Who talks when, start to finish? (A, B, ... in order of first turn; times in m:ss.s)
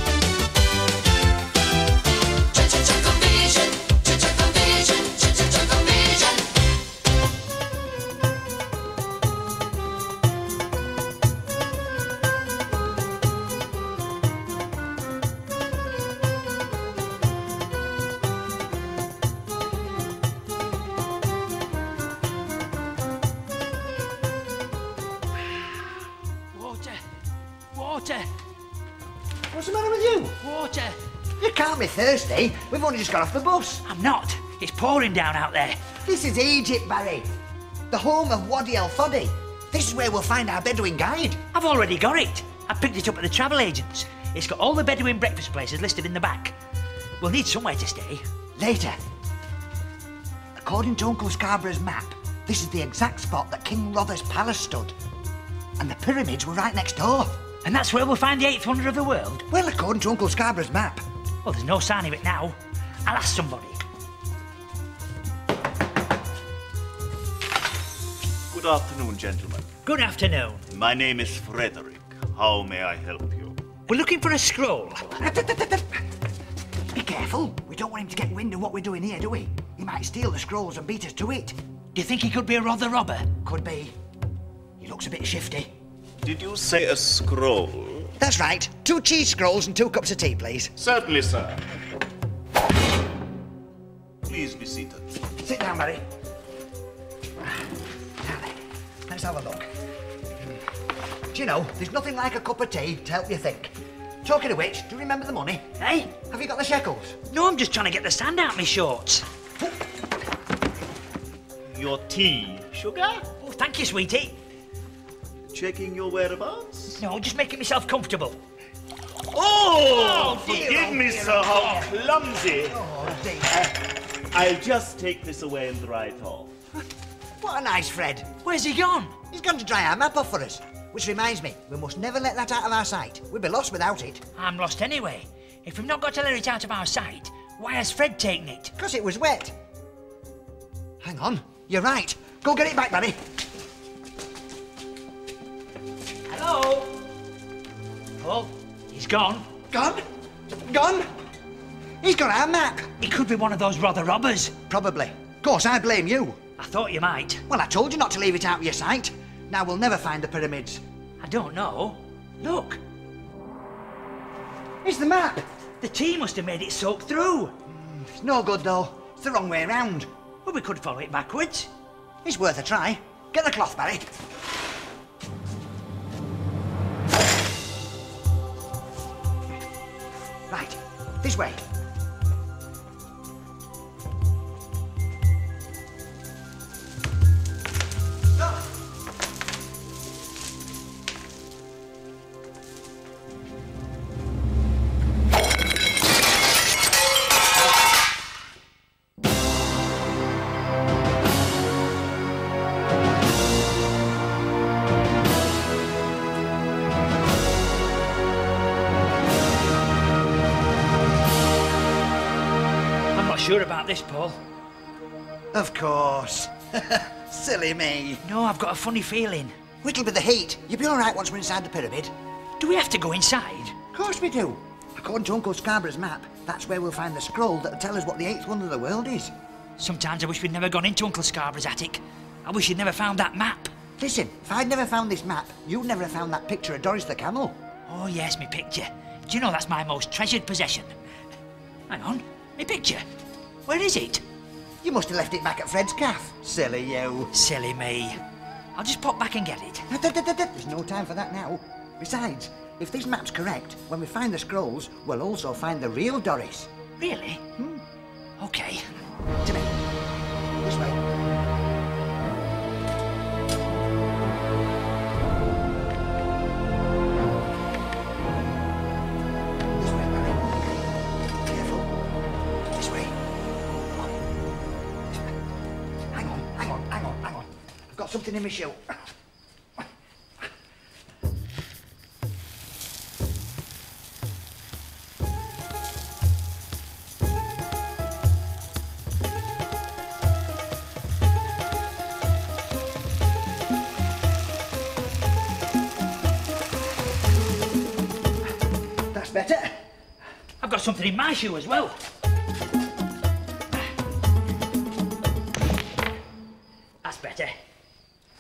0:04.7-0:05.2 A
0:26.5-0:27.0 A
0:27.7-0:28.3 A
0:29.5-0:30.4 B
0:30.4-0:31.0 A
0:31.4-0:33.8 B
0:33.8-0:35.8 A
0:36.0-0:37.3 B
0:37.9-0:41.4 B
0:41.5-0:46.6 A
0:47.2-0:48.2 A
0:48.6-0:49.0 B
0:50.6-0:55.0 B
0:55.8-0:57.4 B
0:57.6-0:59.5 A
0:59.5-1:01.0 B
1:01.4-1:03.8 A
1:08.5-1:09.7 C
1:09.8-1:10.7 A
1:10.7-1:13.6 C
1:13.9-1:15.2 A
1:15.2-1:16.0 B
1:16.9-1:21.6 B
1:22.0-1:23.3 A
1:23.4-1:23.9 B
1:24.8-1:25.7 B
1:26.2-1:28.1 C
1:28.2-1:30.7 B
1:30.8-1:31.6 C
1:34.2-1:35.1 C
1:35.4-1:36.0 B
1:38.2-1:39.7 B
1:41.3-1:47.2 B
1:45.8-1:46.1 A
1:47.3-1:49.3 A
1:51.7-1:53.3 C
1:53.4-1:54.4 A
1:55.5-1:57.0 C
1:57.0-1:58.4 A
1:59.3-2:02.9 C
1:59.8-2:01.9 B
2:02.7-2:03.7 B
2:04.3-2:06.5 C
2:07.4-2:08.3 B
2:08.4-2:09.2 A
2:09.3-2:14.2 B
2:14.4-2:18.7 A
2:18.8-2:19.5 B
2:21.0-2:23.2 B
2:26.3-2:27.0 A
2:28.2-2:29.5 A
2:29.7-2:31.1 B
2:32.0-2:32.9 B
2:33.0-2:34.6 A
2:34.6-2:36.4 B
2:36.6-2:37.4 A
2:37.5-2:40.8 B
2:41.2-2:42.8 A
2:44.8-2:45.4 B
2:45.8-2:47.6 A
2:47.7-2:50.1 B
2:50.4-2:51.7 A
2:52.2-2:54.1 B
3:00.5-3:01.6 B
3:33.1-3:34.4 A
3:35.5-3:38.2 B
3:38.2-3:39.5 A
3:39.8-3:42.1 B
3:42.6-3:43.8 A
3:43.9-3:49.3 B
3:49.8-3:53.7 A
3:54.0-3:57.6 B
3:57.9-4:01.0 A
4:01.9-4:03.0 A
4:03.7-4:04.2 A
4:04.8-4:07.3 B
4:07.3-4:08.2 A
4:08.8-4:09.9 A
4:09.9-4:16.7 B
4:17.0-4:17.4 A
4:17.6-4:17.8 B
4:18.4-4:18.9 A
4:19.4-4:19.8 B
4:20.6-4:21.0 B
4:29.7-4:30.7 B
4:31.5-4:31.9 B
4:32.7-4:33.2 B
4:36.1-4:39.0 B
4:59.1-4:59.8 B
5:00.6-5:02.0 A
5:07.0-5:07.6 A